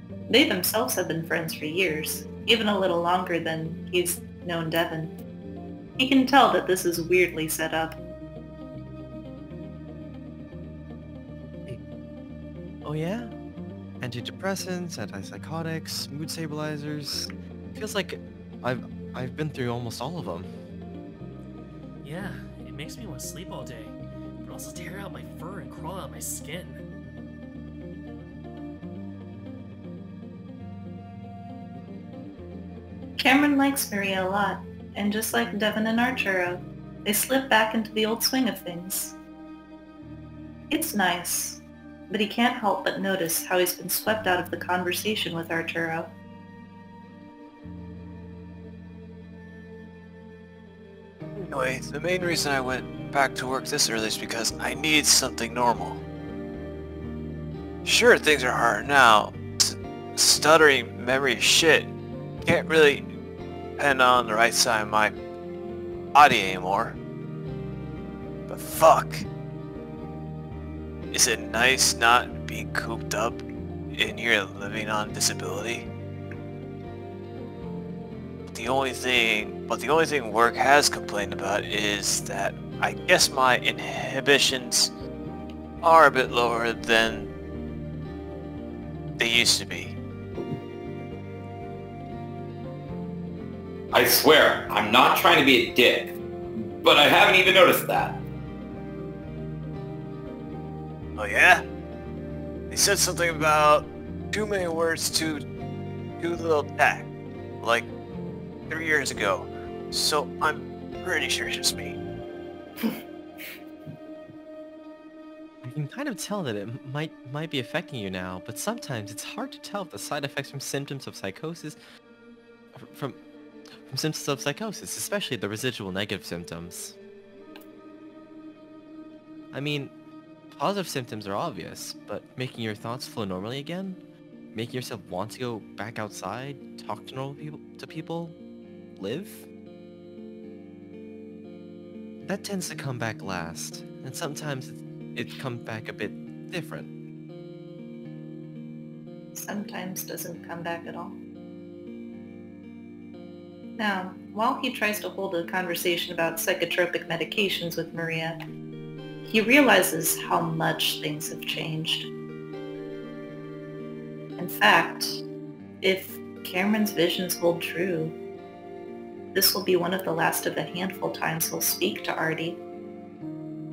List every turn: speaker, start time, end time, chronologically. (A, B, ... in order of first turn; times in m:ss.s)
0:00.3-0:05.2 A
0:06.0-0:08.0 A
0:12.8-0:13.3 B
0:14.0-0:20.5 B
0:22.0-0:26.8 C
0:33.2-0:39.2 A
0:40.7-0:46.1 A
0:51.5-0:56.0 D
0:57.8-1:01.9 D
1:02.4-1:03.1 D
1:03.8-1:05.1 D
1:06.1-1:07.0 D
1:08.5-1:09.2 D
1:11.1-1:15.9 D
1:18.5-1:24.9 D
1:25.8-1:27.3 D
1:29.2-1:30.0 D
1:33.9-1:36.2 E
1:36.7-1:38.2 E
1:41.2-1:41.6 D
1:42.7-1:45.4 D
1:46.2-1:47.1 D
1:47.6-1:47.9 D
1:48.7-1:52.0 D
1:55.6-2:01.8 B
2:02.7-2:03.2 B
2:03.7-2:07.0 B
2:09.5-2:09.9 B
2:10.5-2:14.0 B
2:14.5-2:18.4 B
2:19.0-2:19.5 B
2:22.2-2:26.9 B
2:29.3-2:31.2 A
2:33.8-2:38.4 A
2:39.2-2:42.1 A
2:44.4-2:45.2 A
2:45.8-2:48.2 A
2:49.3-2:52.6 A